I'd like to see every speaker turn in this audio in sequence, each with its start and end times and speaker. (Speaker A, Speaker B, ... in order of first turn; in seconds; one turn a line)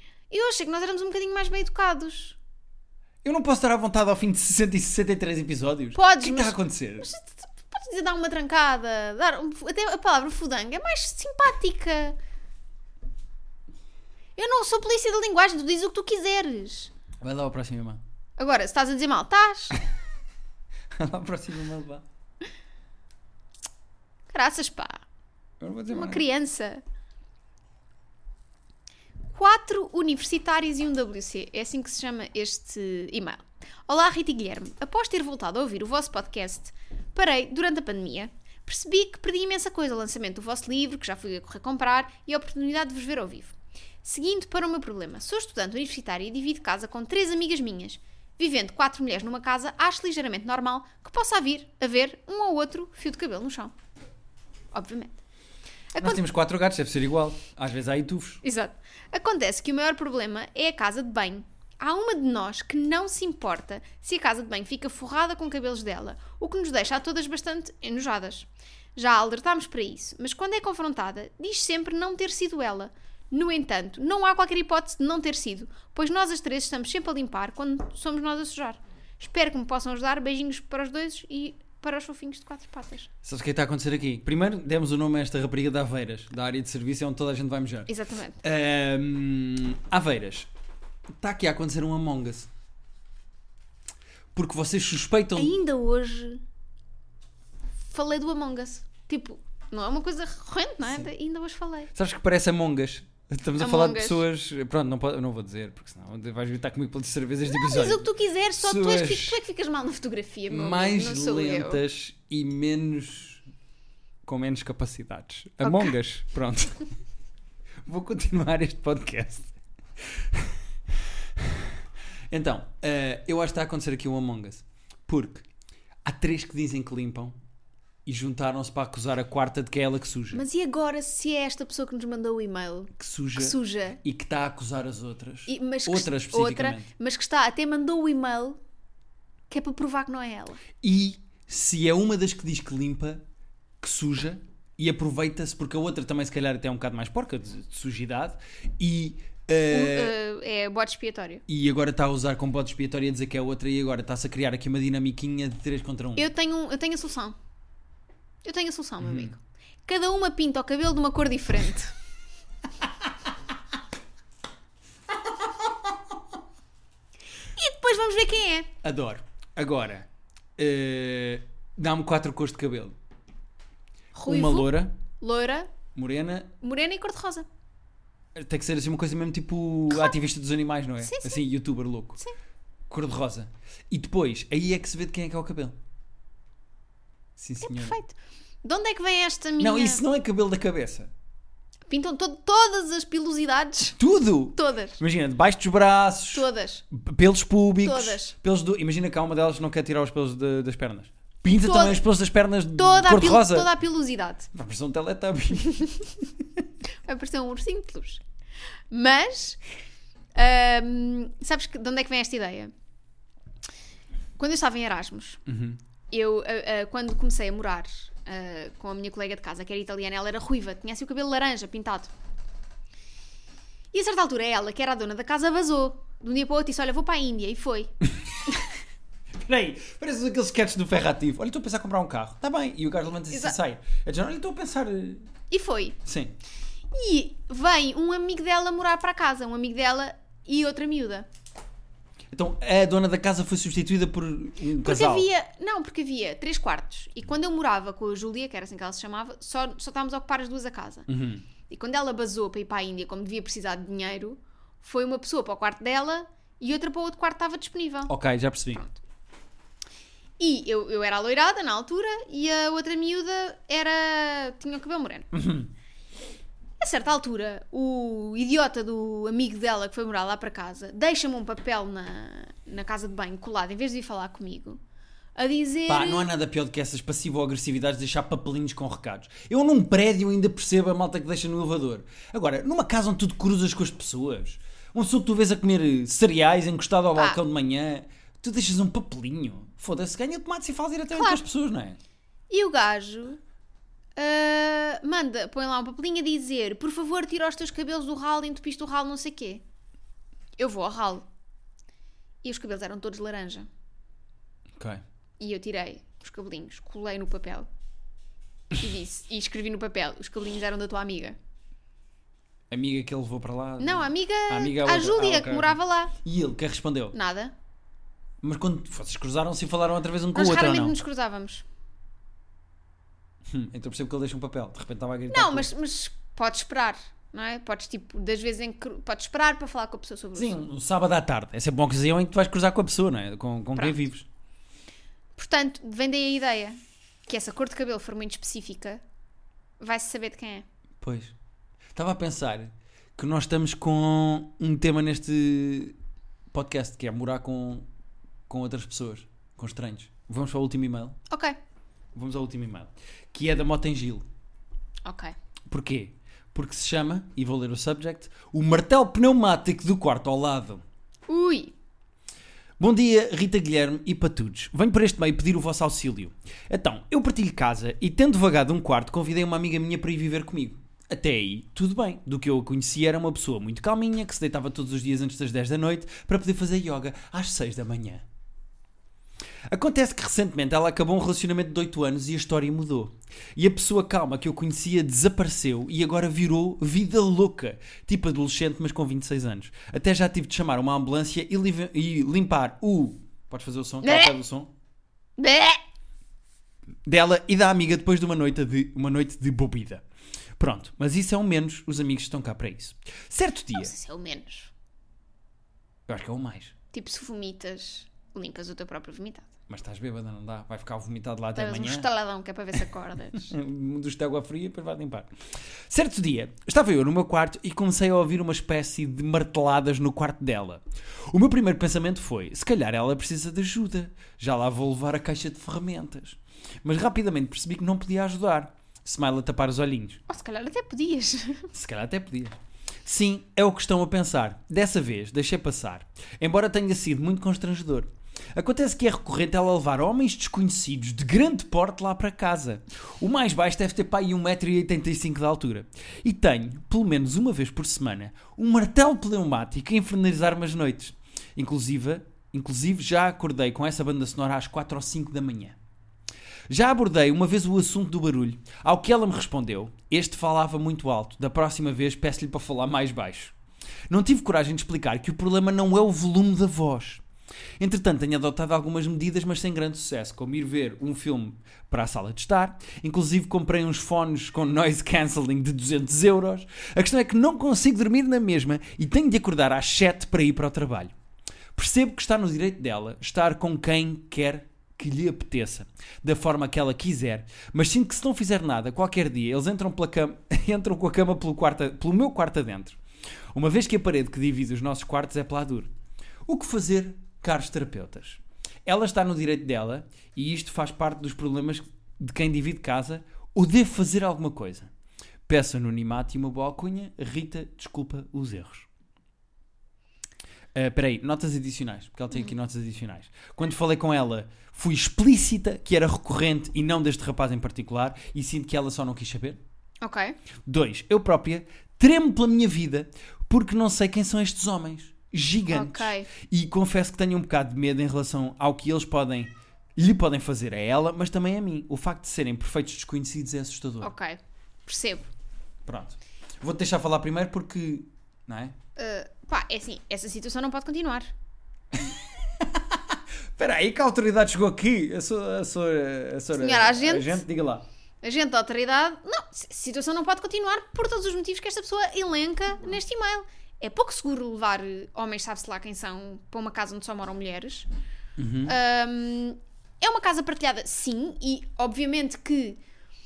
Speaker A: 0.3-2.4
Speaker B: 3.2-7.1
Speaker A: 6.0-12.2
Speaker A: 14.4-16.9
Speaker B: 17.2-18.0
Speaker A: 18.4-19.8
Speaker B: 20.9-22.1
Speaker A: 24.3-25.0
Speaker B: 25.6-26.2
Speaker A: 25.9-26.8
Speaker A: 29.3-53.7
Speaker A: 54.7-55.2
Speaker A: 55.9-56.2
Speaker B: 56.0-58.4
Speaker A: 58.4-83.1
Speaker B: 83.2-87.9
Speaker A: 87.9-88.4
Speaker B: 88.4-90.5
Speaker B: 91.2-92.5
Speaker B: 94.3-95.6
Speaker A: 95.3-96.4
Speaker A: 97.9-101.9
Speaker B: 101.9-109.4
Speaker A: 103.6-104.2
Speaker A: 107.5-111.8
Speaker B: 110.5-113.4
Speaker B: 114.2-116.8
Speaker A: 115.6-115.9
Speaker B: 117.8-121.8
Speaker B: 122.3-125.5
Speaker B: 126.0-127.3
Speaker B: 128.1-130.4
Speaker A: 130.3-134.0
Speaker B: 133.0-136.9
Speaker A: 135.5-138.6
Speaker A: 139.5-140.6
Speaker B: 140.8-143.2
Speaker B: 143.8-150.2
Speaker A: 149.7-151.4
Speaker B: 151.5-156.3
Speaker A: 156.2-157.4
Speaker A: 158.4-161.9
Speaker B: 159.0-159.3
Speaker A: 167.6-168.7
Speaker B: 168.8-173.0
Speaker A: 174.2-175.7
Speaker B: 174.2-174.9
Speaker B: 175.9-176.5
Speaker A: 176.6-177.5
Speaker B: 178.3-182.2
Speaker A: 179.9-180.2
Speaker A: 181.0-181.4
Speaker B: 182.9-185.8
Speaker B: 187.4-188.0
Speaker A: 187.6-190.0
Speaker B: 189.6-191.1
Speaker A: 191.9-194.0
Speaker B: 194.0-203.7
Speaker A: 194.6-195.0
Speaker A: 196.3-196.8
Speaker A: 197.8-198.3
Speaker A: 201.5-202.0
Speaker A: 202.8-204.5
Speaker B: 204.5-206.4
Speaker A: 205.7-206.0
Speaker A: 207.1-208.2
Speaker A: 208.9-209.6
Speaker A: 210.4-212.7
Speaker A: 214.4-215.4
Speaker B: 215.5-215.8
Speaker A: 216.1-222.1
Speaker A: 223.9-227.9
Speaker B: 229.4-235.3
Speaker A: 233.3-233.6
Speaker A: 235.5-236.0
Speaker B: 236.1-236.3
Speaker A: 236.9-241.3
Speaker B: 242.3-245.3
Speaker A: 244.8-251.1
Speaker B: 251.1-251.4
Speaker A: 251.7-258.1
Speaker B: 258.1-258.8
Speaker A: 260.4-265.3
Speaker B: 265.3-265.7
Speaker A: 266.8-274.8
Speaker A: 275.4-276.3
Speaker B: 275.9-292.0
Speaker A: 291.1-291.4
Speaker A: 292.5-293.4
Speaker A: 294.2-299.6
Speaker A: 300.6-301.3
Speaker A: 302.4-303.7
Speaker B: 304.8-305.0
Speaker A: 305.4-307.7
Speaker A: 308.7-311.4
Speaker B: 312.7-317.1
Speaker A: 313.8-316.1
Speaker A: 317.1-317.5
Speaker B: 318.4-321.0
Speaker A: 320.3-321.6
Speaker B: 323.5-325.7
Speaker A: 325.3-330.6
Speaker B: 330.4-334.3
Speaker A: 333.8-334.0
Speaker A: 335.4-339.0
Speaker A: 339.8-340.6
Speaker B: 341.0-341.3
Speaker B: 341.9-346.0
Speaker B: 346.5-347.9
Speaker B: 348.5-351.2
Speaker A: 351.3-351.6
Speaker B: 352.1-354.2
Speaker A: 355.0-355.3
Speaker B: 355.7-360.8
Speaker A: 361.3-361.7
Speaker B: 362.8-378.2
Speaker B: 379.7-394.7
Speaker A: 394.0-394.4
Speaker A: 395.4-395.8
Speaker B: 397.1-400.0
Speaker B: 400.6-403.9
Speaker A: 403.7-404.7
Speaker B: 406.1-406.8
Speaker A: 406.9-409.5
Speaker B: 409.7-412.1
Speaker A: 411.6-413.5
Speaker B: 413.3-415.3
Speaker B: 415.9-430.2
Speaker A: 430.3-431.7
Speaker B: 431.7-455.8
Speaker B: 456.7-463.5
Speaker B: 464.1-467.2
Speaker B: 467.8-481.1
Speaker B: 481.8-493.0
Speaker B: 493.5-495.9
Speaker B: 496.5-504.9
Speaker B: 505.5-508.9
Speaker B: 510.7-519.6
Speaker A: 520.0-520.4
Speaker B: 520.7-534.1
Speaker A: 525.7-526.3
Speaker A: 534.0-535.3
Speaker B: 535.9-538.8
Speaker A: 539.0-541.3
Speaker B: 542.0-547.9
Speaker A: 546.6-547.4
Speaker A: 548.2-557.9
Speaker B: 558.4-558.8
Speaker A: 558.7-562.8